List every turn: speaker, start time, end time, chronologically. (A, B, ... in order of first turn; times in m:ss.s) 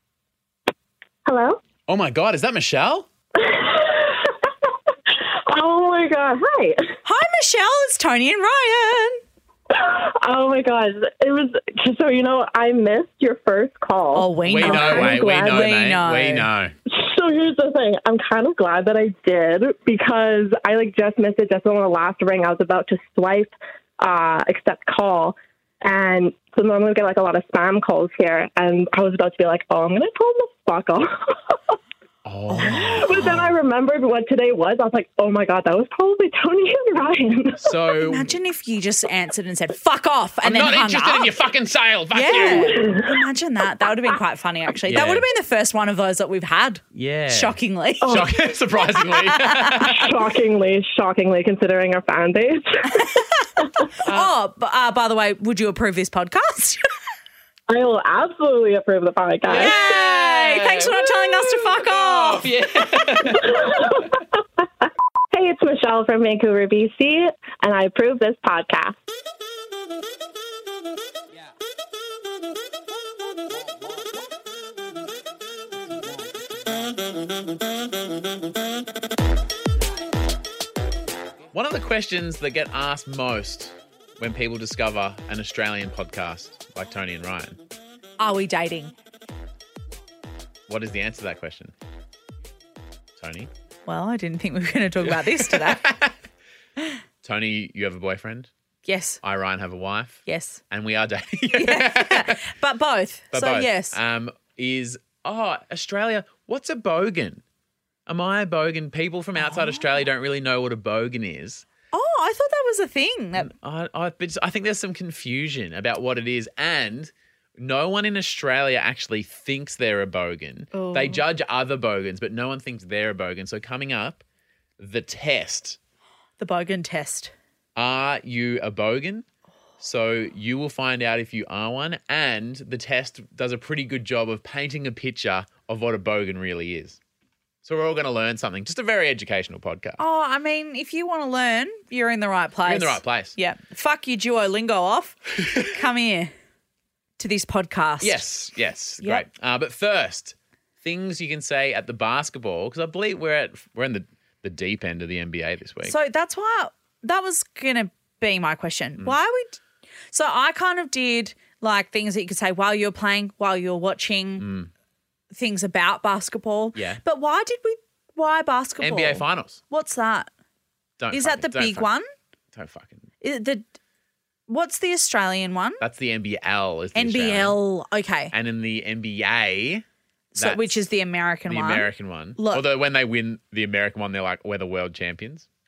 0:01.2-0:01.6 A
0:01.9-0:03.1 B
0:03.4-0:04.5 A
0:05.1-0:06.9 A
0:07.0-0:09.2 C
0:09.7-0:15.2 A
0:14.1-0:16.5 C
0:14.4-0:16.7 B
0:16.9-0:31.6 A
0:32.2-0:33.5 B
0:32.5-0:33.0 C
0:32.6-0:37.9 A
0:37.5-0:38.3 B
0:38.0-0:41.3 C
0:40.4-0:42.9 B
0:42.1-0:48.3 C
0:42.7-0:43.0 A
0:44.9-0:45.3 B
0:46.9-0:50.2 B
0:48.0-0:48.3 A
0:48.9-0:49.9 C
0:49.8-0:53.1 A
0:52.9-0:56.8 C
0:54.0-0:54.3 B
0:57.7-0:59.7 A
0:59.4-1:04.0 B
0:59.5-1:02.5 C
1:03.2-1:04.2 A
1:05.3-1:09.0 A
1:21.5-1:27.6 B
1:28.2-1:28.9 C
1:30.7-1:31.7 B
1:33.2-1:33.5 B
1:33.8-1:35.9 C
1:35.0-1:36.2 B
1:37.2-1:38.5 B
1:38.8-1:39.2 C
1:39.2-1:42.5 B
1:40.2-1:40.6 C
1:41.4-1:44.0 C
1:43.3-1:47.4 B
1:48.1-1:51.6 B
1:49.4-1:50.0 C
1:51.9-1:53.5 C
1:53.4-2:04.2 B
2:00.7-2:01.2 C
2:04.8-2:05.8 B
2:06.4-2:07.3 C
2:07.8-2:09.2 B
2:09.8-2:17.0 B
2:17.6-2:20.0 B
2:20.0-2:26.3 C
2:22.6-2:23.4 B
2:27.2-2:28.2 C
2:28.0-2:36.0 B
2:35.8-2:39.6 C
2:40.1-2:44.5 C
2:44.4-2:44.7 B
2:45.3-2:50.3 C
2:46.7-2:47.0 B
2:48.8-2:49.6 B
2:51.0-2:51.9 B
2:51.1-2:52.0 C
2:52.5-2:53.1 B
2:53.2-2:53.6 C
2:54.5-2:55.8 C
2:55.8-2:57.6 B
2:56.9-2:58.3 C
2:58.3-2:59.8 B
3:00.3-3:02.6 C
3:00.4-3:00.8 B
3:01.5-3:05.5 B